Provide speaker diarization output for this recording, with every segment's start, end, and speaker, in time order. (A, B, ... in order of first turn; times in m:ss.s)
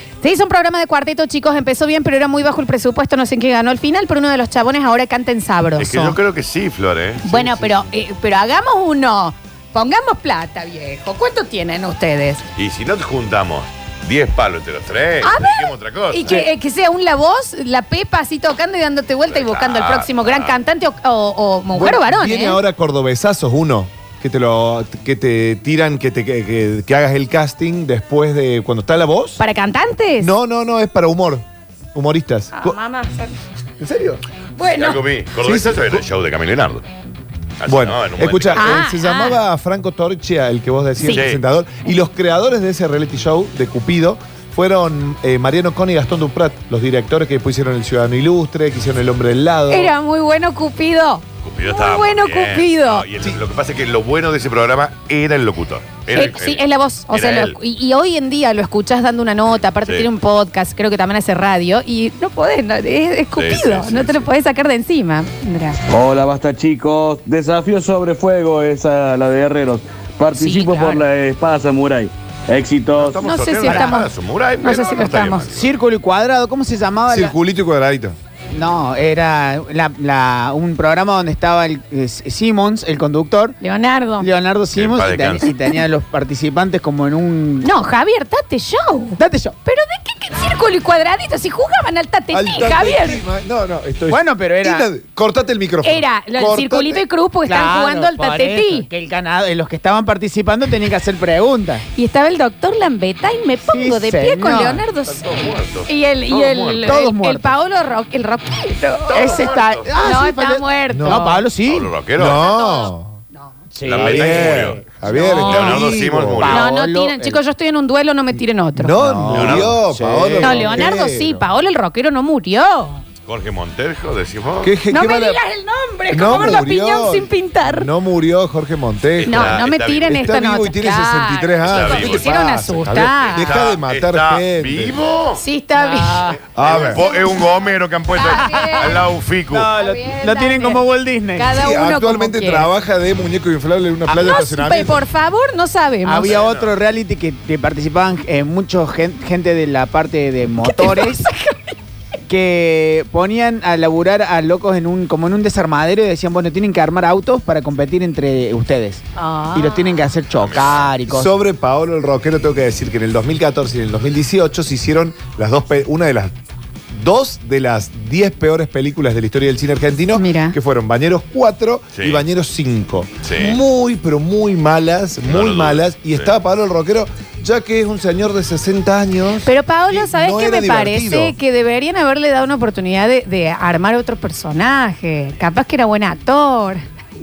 0:00.2-0:06.2 A
0:05.8-0:07.8 B
0:07.2-0:12.4 A
0:12.6-0:16.4 B
0:15.2-0:22.6 A
0:19.3-0:20.5 B
0:21.7-0:29.4 C
0:29.4-0:30.3 A
0:30.2-0:32.8 C
0:32.5-0:33.3 A
0:33.8-0:34.2 C
0:34.6-0:35.0 A
0:34.7-0:36.8 B
0:35.4-0:36.0 C
0:37.6-0:38.8 B
0:37.7-0:49.9 C
0:38.5-0:39.4 A
0:41.0-0:41.2 A
0:41.1-0:41.4 B
0:49.7-0:53.0 A
0:51.4-0:57.6 B
0:56.1-1:05.8 A
1:03.4-1:04.3 B
1:05.9-1:13.2 D
1:10.3-1:11.0 A
1:13.0-1:15.7 B
1:13.2-1:15.5 A
1:15.5-1:17.3 E
1:17.1-1:18.2 C
1:18.5-1:23.6 E
1:23.6-1:24.3 A
1:24.2-1:27.7 E
1:24.7-1:25.5 B
1:27.6-1:33.2 A
1:29.2-1:29.5 E
1:32.3-1:37.0 C
1:34.1-1:34.9 E
1:35.8-1:38.9 A
1:37.4-1:41.8 E
1:41.9-1:49.4 A
1:43.6-1:44.8 E
1:45.2-1:46.9 B
1:46.8-1:47.5 E
1:49.1-1:49.9 B
1:49.1-1:51.9 E
1:50.0-1:51.4 A
1:50.9-1:51.2 C
1:51.6-1:52.4 B
1:52.2-1:53.2 C
1:52.2-1:53.5 A
1:53.7-1:55.5 E
1:53.8-1:54.8 B
1:53.9-1:56.5 C
1:55.3-1:56.7 B
1:55.3-1:55.8 A
1:56.4-1:57.4 E
1:56.4-1:58.9 A
1:58.7-2:01.4 C
1:59.0-2:00.6 E
1:59.3-1:59.8 B
2:00.4-2:03.0 A
2:03.2-2:04.7 B
2:04.6-2:05.4 C
2:04.9-2:07.9 A
2:06.1-2:09.6 C
2:09.2-2:10.3 B
2:09.3-2:13.6 A
2:10.1-2:15.0 C
2:11.6-2:12.4 B
2:13.2-2:15.4 B
2:15.4-2:16.4 A
2:15.8-2:16.3 E
2:16.3-2:19.7 B
2:16.5-2:17.0 C
2:16.9-2:19.0 A
2:18.2-2:18.9 E
2:19.5-2:21.5 E
2:19.7-2:20.8 A
2:21.3-2:22.7 A
2:21.5-2:25.0 C
2:24.2-2:26.4 A
2:26.0-2:31.3 E
2:26.2-2:26.7 B
2:30.6-2:31.5 A
2:32.3-2:39.0 E
2:39.2-2:40.0 A
2:39.5-2:41.3 E
2:40.3-2:40.9 B
2:41.1-2:46.3 C
2:46.9-3:01.4 C
2:50.1-2:50.6 A
2:51.9-2:52.2 B
2:53.2-2:53.6 B
2:55.2-2:56.3 B
2:59.4-3:06.8 A